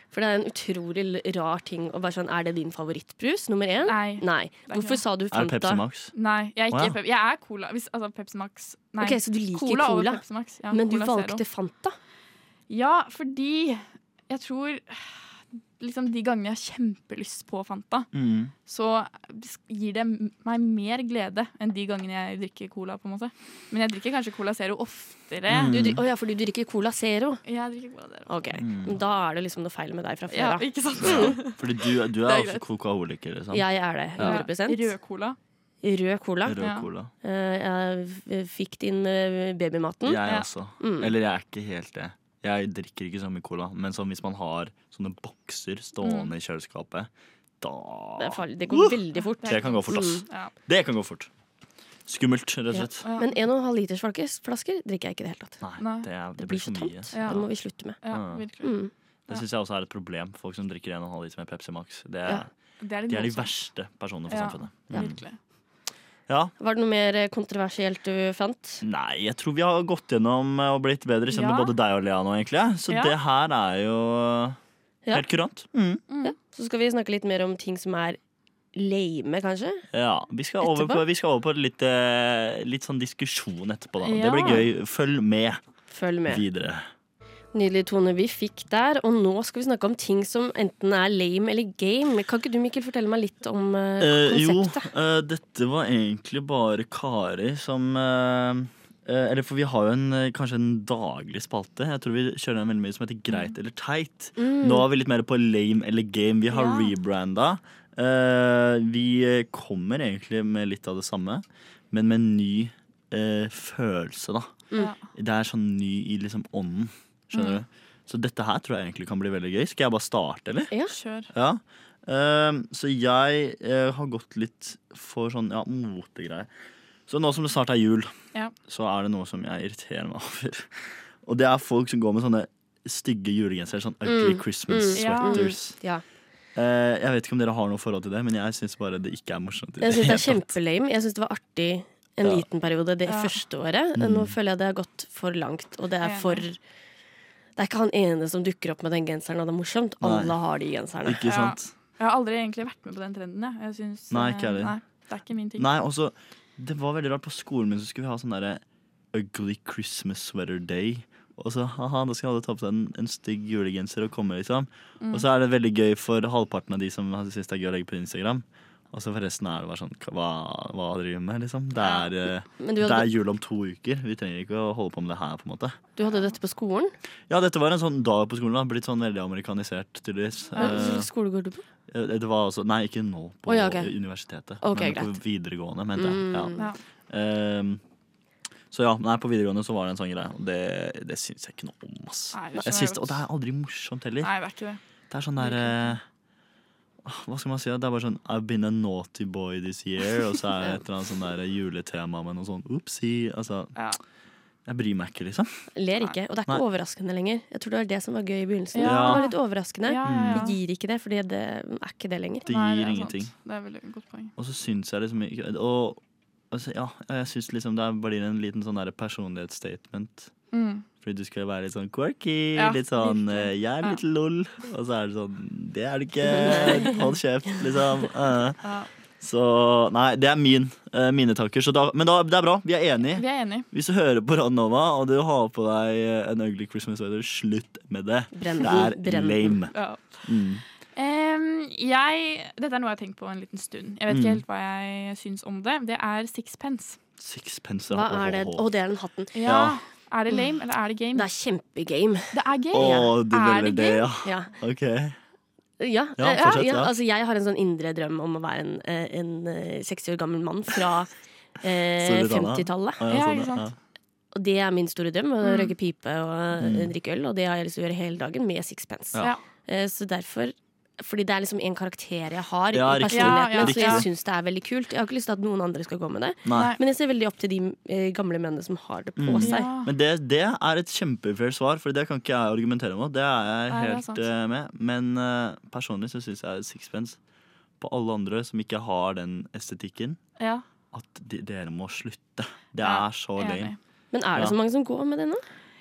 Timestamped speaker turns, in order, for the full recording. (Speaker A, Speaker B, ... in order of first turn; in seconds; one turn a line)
Speaker A: 0.1-5.8
Speaker B: 3.9-5.0
Speaker C: 5.3-6.1
Speaker B: 6.1-11.4
Speaker C: 6.7-7.0
Speaker A: 9.0-12.0
Speaker B: 12.7-18.1
Speaker C: 18.1-18.5
Speaker B: 18.7-25.8
Speaker C: 25.5-26.0
Speaker A: 25.7-27.4
Speaker B: 27.5-28.6
Speaker A: 28.3-31.4
Speaker C: 28.6-29.0
Speaker B: 30.3-32.6
Speaker C: 31.0-33.6
Speaker A: 33.5-35.0
Speaker B: 34.2-35.4
Speaker A: 35.8-36.6
Speaker C: 36.4-37.1
Speaker B: 36.6-36.9
Speaker A: 37.2-40.2
Speaker C: 40.0-47.1
Speaker A: 40.8-41.1
Speaker B: 46.0-46.3
Speaker C: 47.6-51.3
Speaker A: 48.2-50.3
Speaker B: 49.4-50.5
Speaker C: 52.1-53.0
Speaker A: 52.7-55.6
Speaker B: 53.0-53.4
Speaker C: 55.6-57.4
Speaker B: 55.8-56.1
Speaker A: 56.4-58.0
Speaker B: 57.1-57.5
Speaker B: 58.0-58.7
Speaker C: 58.1-58.4
Speaker A: 58.6-58.9
Speaker C: 59.3-62.5
Speaker B: 62.8-63.5
Speaker C: 63.1-65.2
Speaker B: 64.3-65.4
Speaker C: 66.3-66.5
Speaker A: 66.6-68.8
Speaker C: 68.8-74.6
Speaker B: 71.3-71.7
Speaker B: 72.9-73.2
Speaker C: 75.1-76.0
Speaker B: 76.1-76.3
Speaker A: 76.2-78.2
Speaker A: 78.7-79.9
Speaker C: 79.9-85.6
Speaker A: 80.6-81.0
Speaker B: 84.0-84.6
Speaker A: 85.9-86.4
Speaker C: 86.3-86.9
Speaker A: 87.5-94.9
Speaker C: 94.0-114.6
Speaker A: 104.4-104.9
Speaker B: 106.5-106.9
Speaker C: 115.1-120.7
Speaker B: 117.3-117.6
Speaker B: 120.9-121.3
Speaker C: 121.3-126.5
Speaker C: 127.1-128.1
Speaker C: 128.7-135.8
Speaker A: 134.1-136.0
Speaker B: 134.9-135.5
Speaker C: 136.6-140.5
Speaker A: 139.8-146.6
Speaker B: 143.1-143.4
Speaker C: 144.0-144.3
Speaker B: 146.0-146.4
Speaker A: 147.6-151.3
Speaker C: 150.0-150.3
Speaker C: 151.0-151.7
Speaker B: 151.3-155.7
Speaker C: 154.1-154.8
Speaker C: 155.6-175.8
Speaker B: 171.8-172.1
Speaker A: 172.6-173.1
Speaker A: 176.0-176.9
Speaker C: 177.3-181.1
Speaker B: 180.6-180.9
Speaker A: 180.6-181.6
Speaker C: 181.9-187.8
Speaker A: 183.5-183.9
Speaker A: 184.6-185.2
Speaker A: 185.9-186.7
Speaker C: 188.7-194.3
Speaker B: 192.3-193.2
Speaker B: 194.2-194.8
Speaker C: 195.1-196.0
Speaker B: 195.4-196.0
Speaker C: 197.0-203.7
Speaker B: 203.8-204.0
Speaker C: 204.7-205.5
Speaker A: 205.8-212.5
Speaker B: 208.7-210.6
Speaker C: 208.8-209.2
Speaker C: 210.0-210.5
Speaker C: 212.5-213.3
Speaker B: 212.5-214.3
Speaker C: 214.4-216.0
Speaker C: 216.5-220.3
Speaker B: 220.5-220.8
Speaker C: 221.0-228.6
Speaker B: 222.6-224.0
Speaker A: 226.2-227.1
Speaker B: 228.6-228.9
Speaker C: 229.2-240.6
Speaker B: 233.2-233.7
Speaker A: 238.3-239.6
Speaker B: 239.7-240.2
Speaker B: 240.9-247.0
Speaker C: 244.1-244.4
Speaker C: 247.2-248.7
Speaker A: 247.9-249.5
Speaker B: 249.3-251.3
Speaker C: 249.4-249.8
Speaker A: 251.1-253.2
Speaker B: 252.3-254.1
Speaker C: 252.7-255.2
Speaker A: 254.2-254.5
Speaker A: 255.8-263.1
Speaker C: 256.2-256.9
Speaker C: 262.0-263.8
Speaker B: 263.1-263.7
Speaker A: 264.3-279.8
Speaker B: 265.4-265.7
Speaker C: 266.6-266.9
Speaker C: 272.7-274.1
Speaker B: 273.1-274.1
Speaker C: 276.5-276.8
Speaker B: 276.5-276.8
Speaker C: 279.2-287.2
Speaker B: 279.4-279.9
Speaker B: 283.7-284.2
Speaker C: 287.8-290.2
Speaker B: 290.4-290.6
Speaker C: 290.9-293.7
Speaker B: 292.8-293.8
Speaker A: 294.1-295.4